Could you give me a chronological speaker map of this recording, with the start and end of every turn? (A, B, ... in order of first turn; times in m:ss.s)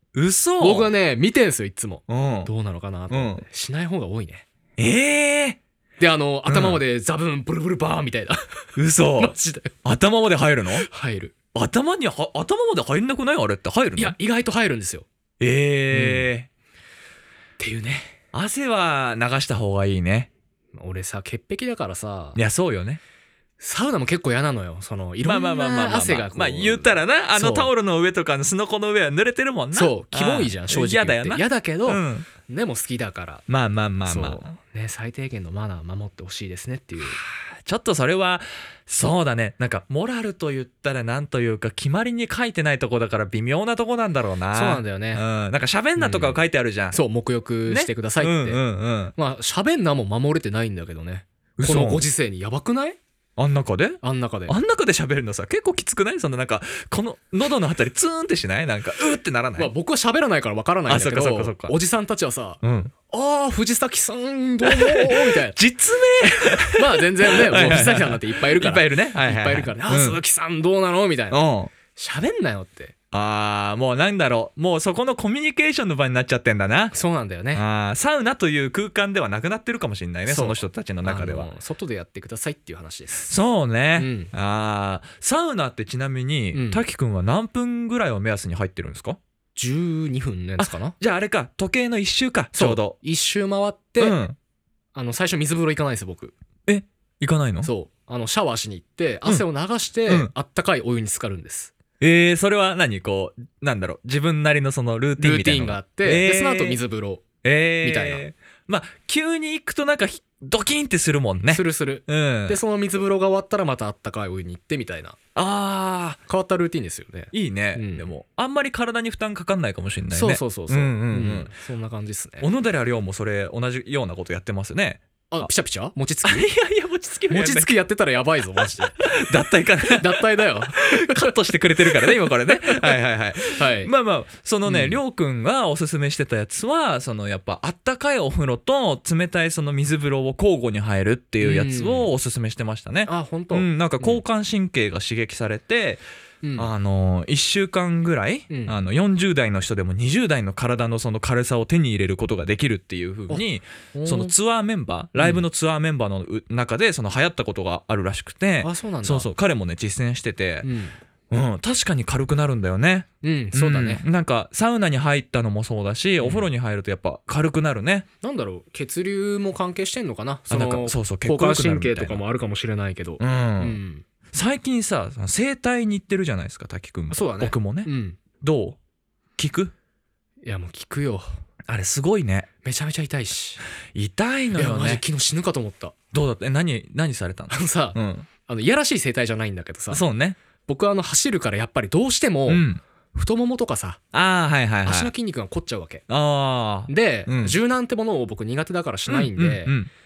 0:00.1-0:00.9 A
0:00.6-0:04.4 B
0:02.1-0:02.5 A
0:03.1-0:03.4 A
0:04.8-0:05.6 A
0:06.0-0:08.4 B
0:06.5-0:06.8 A
0:08.8-0:10.9 A
0:09.2-0:09.7 B
0:10.8-0:11.4 B
0:11.5-0:14.2 A
0:14.0-0:15.0 B
0:15.4-0:16.5 A
0:15.9-0:16.3 B
0:17.6-0:18.1 B
0:18.3-0:20.3 A
0:20.7-0:22.4 B
0:22.4-0:23.0 A
0:23.6-0:27.7 B
0:25.2-0:32.3 A
0:29.7-0:33.4 B
0:33.5-0:34.5 A
0:34.0-0:37.2 B
0:37.0-0:47.0 A
0:44.5-0:45.2 B
0:46.0-0:46.4 B
0:46.9-0:48.6 B
0:47.7-0:49.1 A
0:49.1-0:53.0 B
0:51.6-0:52.0 A
0:53.4-0:59.7 A
0:54.0-0:54.6 B
0:59.6-1:05.6 B
1:00.9-1:01.7 A
1:02.6-1:02.9 A
1:04.6-1:10.2 A
1:06.3-1:11.4 B
1:11.3-1:11.7 A
1:11.9-1:12.9 B
1:13.1-1:17.0 A
1:16.9-1:17.6 B
1:17.5-1:21.5 A
1:20.3-1:23.4 B
1:23.2-1:29.2 A
1:24.0-1:24.3 B
1:26.5-1:26.8 B
1:29.6-1:31.0 B
1:30.6-1:33.0 A
1:32.5-1:34.2 B
1:34.0-1:34.4 A
1:35.0-1:36.3 B
1:36.7-1:37.7 A
1:37.6-1:41.7 B
1:42.0-1:46.8 A
1:45.2-1:47.3 B
1:47.4-1:52.6 A
1:47.8-1:48.2 B
1:51.5-1:55.2 B
1:55.4-1:56.2 A
1:56.3-1:58.1 B
1:57.3-2:01.5 A
2:00.1-2:02.5 B
2:02.4-2:05.5 A
2:05.3-2:06.5 B
2:06.2-2:07.7 A
2:07.3-2:09.1 B
2:09.0-2:26.0 A
2:09.9-2:13.0 B
2:13.5-2:13.9 B
2:14.6-2:15.0 B
2:21.4-2:22.1 B
2:23.0-2:24.2 B
2:26.4-2:26.7 B
2:26.6-2:40.7 A
2:28.5-2:28.8 B
2:33.9-2:34.3 B
2:35.2-2:35.4 B
2:38.6-2:39.3 B
2:40.6-2:41.0 B
2:41.3-2:48.1 A
2:43.2-2:44.0 B
2:46.2-2:46.5 B
2:48.2-2:54.0 B
2:50.5-2:52.2 A
2:53.2-2:53.8 A
2:54.3-2:58.8 A
2:57.1-2:58.2 B
2:59.4-2:59.7 A
3:00.4-3:01.3 B
3:01.7-3:02.5 A
3:02.6-3:03.6 B
3:03.9-3:05.0 A
3:04.6-3:05.9 B
3:06.1-3:08.3 A
3:07.5-3:10.0 B
3:09.9-3:10.4 A
3:10.6-3:14.0 B
3:12.5-3:12.8 A
3:14.1-3:15.1 A
3:14.8-3:16.0 B
3:16.1-3:17.6 A
3:16.9-3:19.7 B
3:19.1-3:19.9 A